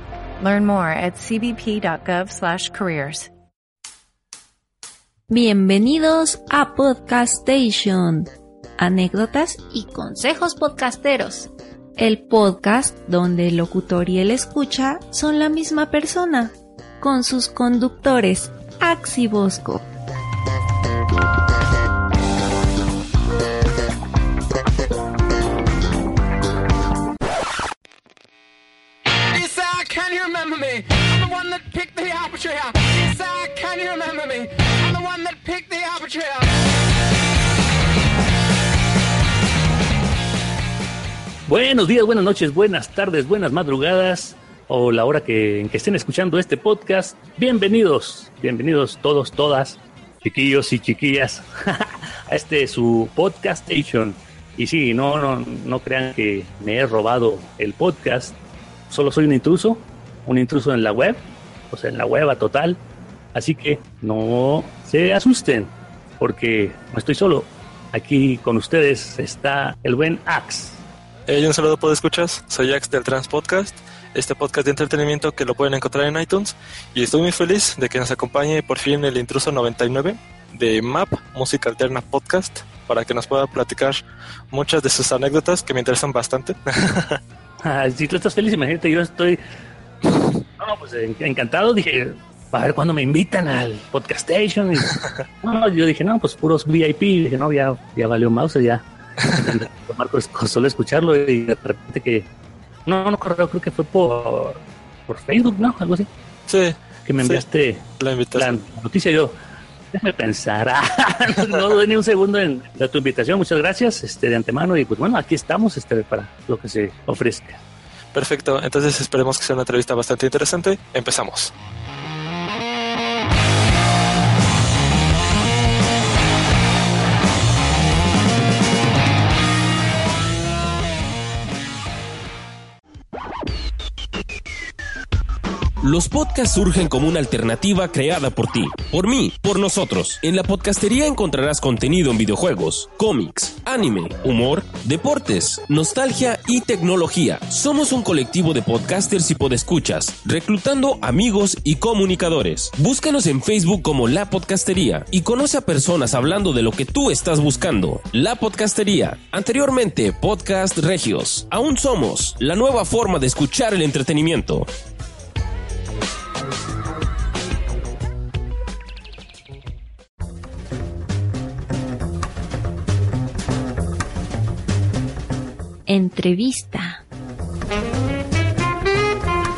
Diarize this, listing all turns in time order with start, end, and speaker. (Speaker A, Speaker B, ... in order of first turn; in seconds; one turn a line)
Speaker A: 0.4-3.3
Speaker B: 5.3-19.8
Speaker C: 29.3-36.5
Speaker D: 41.5-58.4
Speaker D: 58.9-62.8
Speaker D: 63.3-70.8
Speaker E: 71.3-87.2
Speaker D: 87.6-89.4
Speaker D: 90.6-102.3
Speaker D: 102.9-106.1
Speaker E: 106.5-107.4
Speaker D: 107.1-109.4
Speaker E: 108.0-108.6
Speaker D: 109.9-117.6
Speaker E: 118.1-121.5
Speaker F: 135.8-164.7
Speaker B: 175.9-177.0